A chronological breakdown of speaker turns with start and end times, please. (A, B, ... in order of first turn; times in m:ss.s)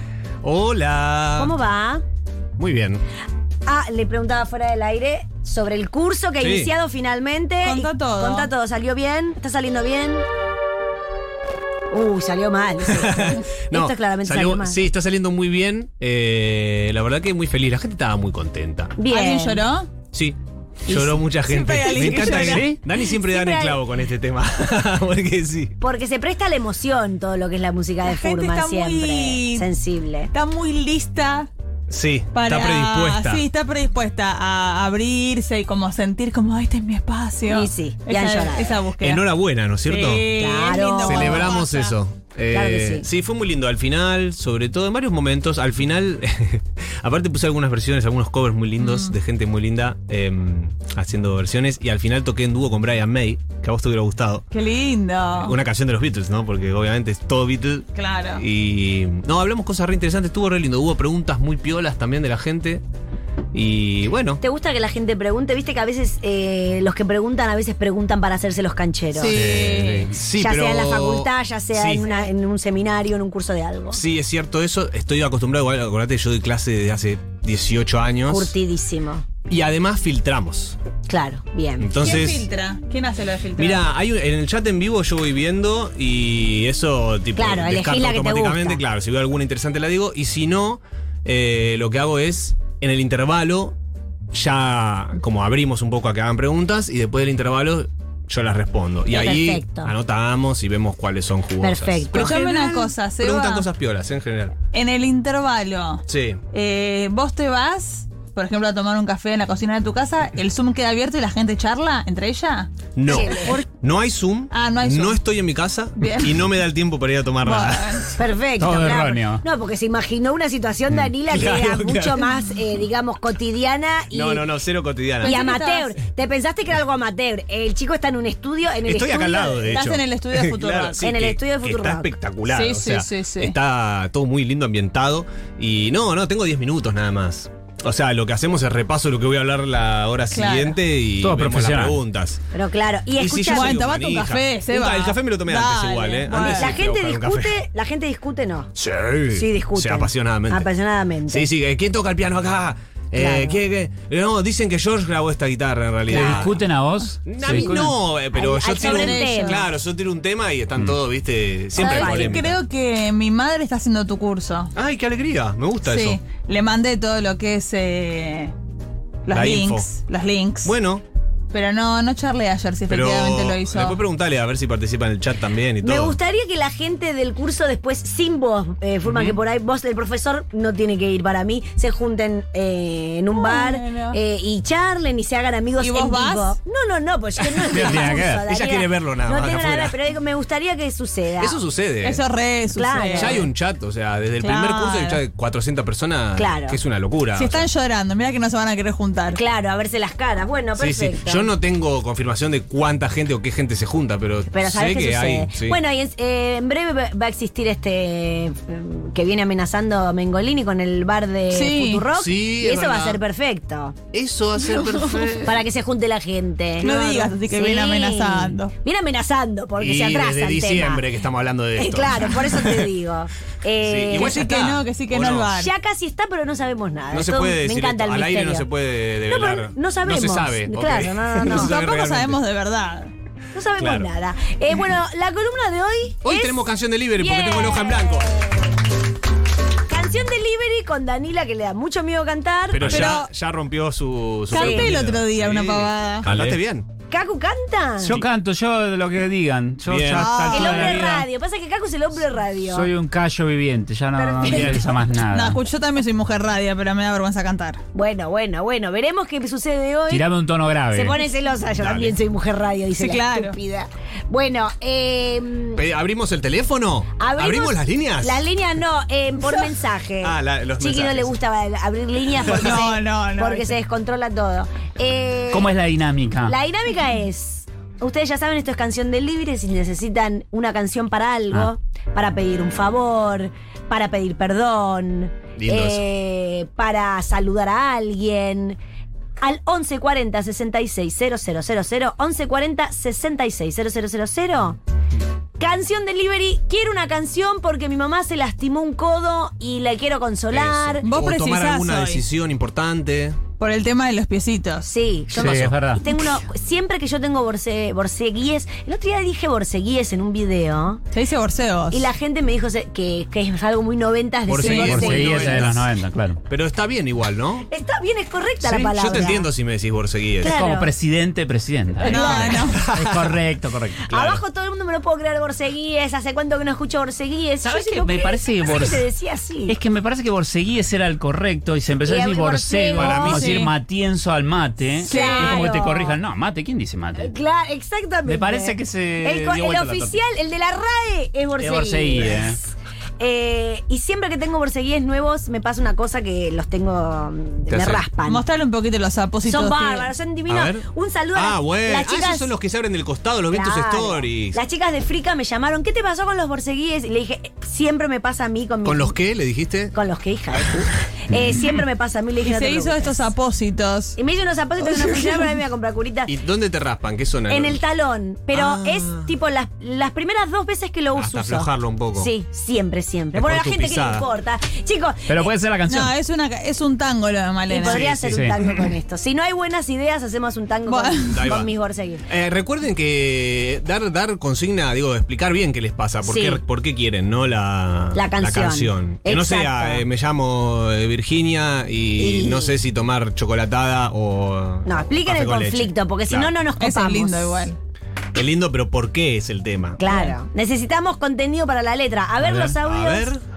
0:00.4-0:01.5 A
0:01.4-0:02.0 B
0:02.6-0:03.0 A
0:03.6-0:10.2 B
0:06.4-0:06.7 A
0:07.6-0:08.5 C
0:11.9-0:14.8 B
0:12.9-0:18.9 A
0:19.0-0:19.6 B
0:19.1-0:19.9 C
0:20.9-0:25.7 A
0:20.9-0:22.7 C
0:22.0-0:22.4 B
0:22.4-0:22.8 D
0:22.9-0:23.8 B
0:25.8-0:30.3 B
0:28.0-0:29.7 C
0:30.3-0:31.5 C
0:31.9-0:33.4 A
0:32.3-0:39.2 C
0:37.5-0:38.8 B
0:39.0-0:40.3 A
0:39.8-0:42.0 C
0:40.3-0:41.5 B
0:41.0-0:54.4 A
0:42.5-0:43.1 B
0:48.8-0:49.1 C
0:54.5-0:55.6 C
0:55.4-1:02.8 A
0:58.0-0:58.4 C
1:03.5-1:04.4 A
1:04.4-1:09.4 B
1:09.1-1:10.1 C
1:09.3-1:12.3 A
1:09.7-1:10.2 D
1:10.4-1:14.0 B
1:13.9-1:18.5 A
1:18.3-1:19.2 B
1:19.5-1:20.8 A
1:21.1-1:21.9 B
1:21.8-1:22.4 A
1:22.0-1:23.9 C
1:23.6-1:33.7 A
1:27.4-1:28.8 B
1:34.3-1:44.6 A
1:39.1-1:39.9 B
1:41.6-1:42.3 B
1:42.1-1:43.6 C
1:44.7-1:53.6 C
1:46.1-1:46.4 A
1:53.0-1:58.0 A
1:53.1-1:53.6 B
1:54.5-1:55.2 C
1:56.0-1:56.5 C
1:57.4-1:58.1 C
1:58.2-2:04.4 B
1:58.6-1:59.4 D
2:00.9-2:02.3 A
2:04.1-2:05.4 A
2:05.2-2:05.9 C
2:05.2-2:09.7 B
2:08.8-2:22.4 A
2:09.6-2:11.0 C
2:11.0-2:12.1 B
2:12.5-2:13.6 C
2:20.3-2:20.8 C
2:21.2-2:22.0 D
2:22.5-2:23.8 B
2:23.2-2:27.6 A
2:23.5-2:26.8 C
2:26.5-2:28.7 B
2:28.8-2:30.7 A
2:29.3-2:31.5 B
2:31.3-2:36.6 A
2:33.2-2:33.6 B
2:36.1-2:36.6 B
2:36.1-2:38.0 D
2:37.2-2:42.6 A
2:37.4-2:39.6 B
2:38.7-2:39.7 C
2:41.8-2:42.5 B
2:41.8-2:44.7 C
2:44.8-2:46.2 A
2:45.8-2:48.5 C
2:49.3-2:50.7 C
2:49.3-2:49.9 A
2:50.6-2:51.0 A
2:51.5-2:54.0 C
2:52.9-2:56.2 A
2:55.8-3:11.6 B
2:59.0-2:59.4 A
3:03.3-3:04.2 C
3:05.8-3:06.6 C
3:07.4-3:09.9 A
3:07.7-3:08.4 D
3:11.4-3:12.2 A
3:12.0-3:13.5 C
3:12.7-3:13.4 B
3:13.1-3:17.7 A
3:14.4-3:15.2 C
3:16.3-3:16.8 B
3:17.3-3:19.4 C
3:19.3-3:21.5 B
3:20.8-3:25.8 A
3:24.5-3:34.0 B
3:31.5-3:32.0 C
3:32.1-3:33.2 A
3:34.1-3:35.6 A
3:34.8-3:35.2 C
3:35.4-3:41.0 B
3:36.8-3:38.7 C
3:39.8-3:42.9 A
3:41.8-3:44.4 B
3:43.8-3:45.5 A
3:44.1-3:45.7 C
3:45.6-3:48.7 B
3:47.1-3:52.4 A
3:49.3-3:51.7 B
3:51.4-3:53.1 C
3:53.5-3:56.6 B
3:53.8-3:54.1 A
3:56.2-3:58.2 A
3:57.2-3:58.7 B
3:59.9-4:03.1 B
4:02.7-4:06.8 A
4:02.8-4:03.3 C
4:04.5-4:06.3 C
4:04.5-4:05.0 B
4:06.3-4:06.6 D
4:07.1-4:08.2 B
4:08.0-4:11.3 D
4:09.8-4:10.6 A
4:10.1-4:11.0 C
4:10.5-4:12.9 B
4:12.7-4:15.6 D
4:14.1-4:14.9 B
4:14.5-4:14.8 C
4:15.3-4:17.8 C
4:17.9-4:20.3 B
4:20.1-4:21.2 D
4:20.9-4:25.8 B
4:21.7-4:22.2 A
4:23.0-4:23.5 C
4:25.8-4:28.4 A
4:27.2-4:35.7 B
4:30.2-4:31.3 A
4:32.5-4:33.7 C
4:35.5-4:36.6 D
4:36.4-4:48.8 B
4:45.6-4:46.0 A
4:49.4-4:54.8 B
4:55.6-5:01.0 B
5:00.5-5:03.4 A
5:01.0-5:02.2 C
5:03.6-5:04.9 C
5:04.8-5:11.0 B
5:05.3-5:06.0 D
5:05.4-5:05.7 A
5:11.1-5:12.0 C
5:11.9-5:15.7 B
5:14.5-5:15.9 A
5:14.6-5:14.9 C
5:14.7-5:16.4 D
5:16.5-5:17.6 A
5:17.7-5:19.5 B
5:18.6-5:20.6 A
5:20.4-5:20.9 B
5:20.4-5:24.0 D
5:22.0-5:22.6 B
5:22.0-5:22.8 C
5:22.2-5:23.4 A
5:24.1-5:29.8 B
5:24.1-5:24.4 A
5:27.6-5:29.1 D
5:29.7-5:37.3 D
5:32.0-5:33.6 B
5:33.0-5:33.7 A
5:33.4-5:33.7 C
5:35.0-5:36.2 B
5:35.0-5:35.6 C
5:37.2-5:48.4 B
5:38.2-5:40.2 D
5:41.6-5:42.6 D
5:47.7-5:48.0 A
5:48.2-5:50.1 C
5:49.4-5:52.5 B
5:50.5-5:54.6 A
5:53.5-5:59.2 B
5:58.8-5:59.9 A
5:59.9-6:03.1 B
6:00.5-6:00.9 A
6:02.4-6:04.2 C
6:04.2-6:06.3 B
6:06.3-6:07.8 A
6:07.5-6:15.5 B
6:08.5-6:09.3 A
6:11.1-6:12.3 A
6:13.3-6:14.2 A
6:15.3-6:16.1 D
6:15.9-6:18.0 C
6:17.7-6:22.2 B
6:17.8-6:18.5 A
6:18.2-6:18.6 D
6:20.9-6:21.4 C
6:21.3-6:21.7 A
6:22.2-6:36.5 A
6:26.2-6:26.6 B
6:28.1-6:30.0 B
6:32.2-6:32.7 B
6:34.8-6:37.7 B
6:36.8-6:37.8 C
6:38.3-6:40.0 A
6:40.0-6:43.3 B
6:42.4-6:43.4 A